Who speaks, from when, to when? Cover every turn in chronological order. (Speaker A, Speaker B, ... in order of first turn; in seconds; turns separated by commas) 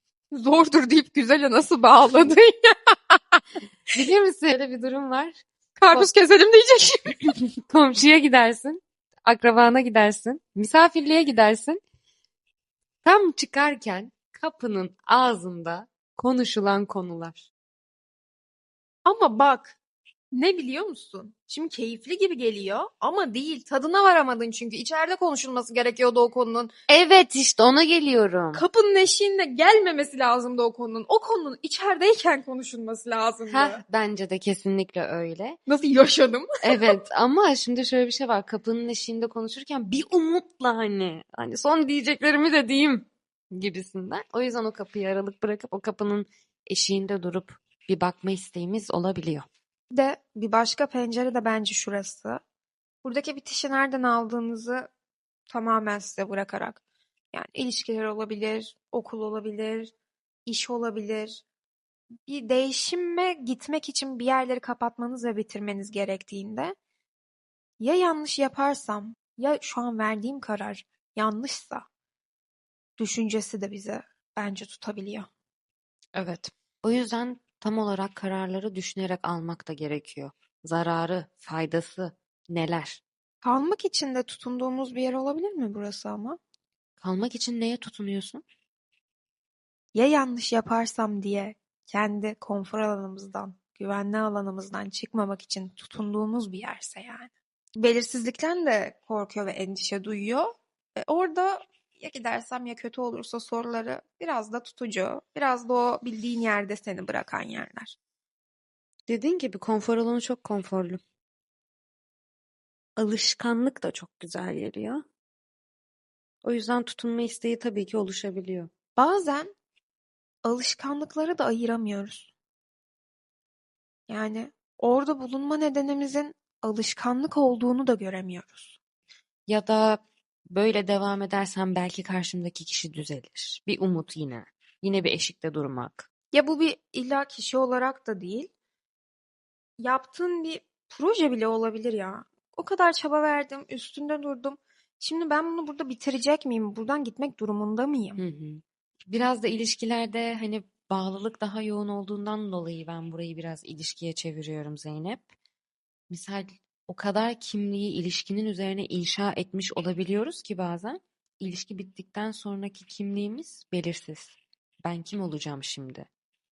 Speaker A: 0.3-3.4, Speaker B: 3.9-6.1, Speaker A: 5.8-7.3, Speaker B: 7.6-11.8, Speaker B: 13.0-17.5, Speaker A: 19.1-19.8, Speaker A: 20.3-26.7, Speaker B: 26.9-28.6, Speaker A: 28.5-33.8, Speaker B: 33.5-35.6, Speaker A: 35.7-37.0, Speaker B: 36.6-49.5, Speaker A: 49.9-52.4, Speaker A: 53.0-54.9, Speaker A: 55.5-56.8, Speaker A: 57.3-59.9, Speaker A: 60.5-61.4, Speaker A: 62.3-66.8, Speaker A: 67.8-71.9, Speaker A: 73.0-75.3, Speaker B: 76.2-83.0, Speaker A: 83.4-86.4, Speaker B: 87.0-88.4, Speaker A: 90.0-108.0, Speaker B: 109.1-111.0, Speaker B: 113.0-115.0, Speaker B: 116.4-118.7, Speaker A: 119.0-119.5, Speaker A: 120.5-122.3, Speaker A: 124.1-128.8, Speaker B: 129.5-136.1, Speaker A: 136.3-138.5, Speaker A: 139.8-148.2, Speaker B: 148.2-155.3, Speaker B: 156.1-166.1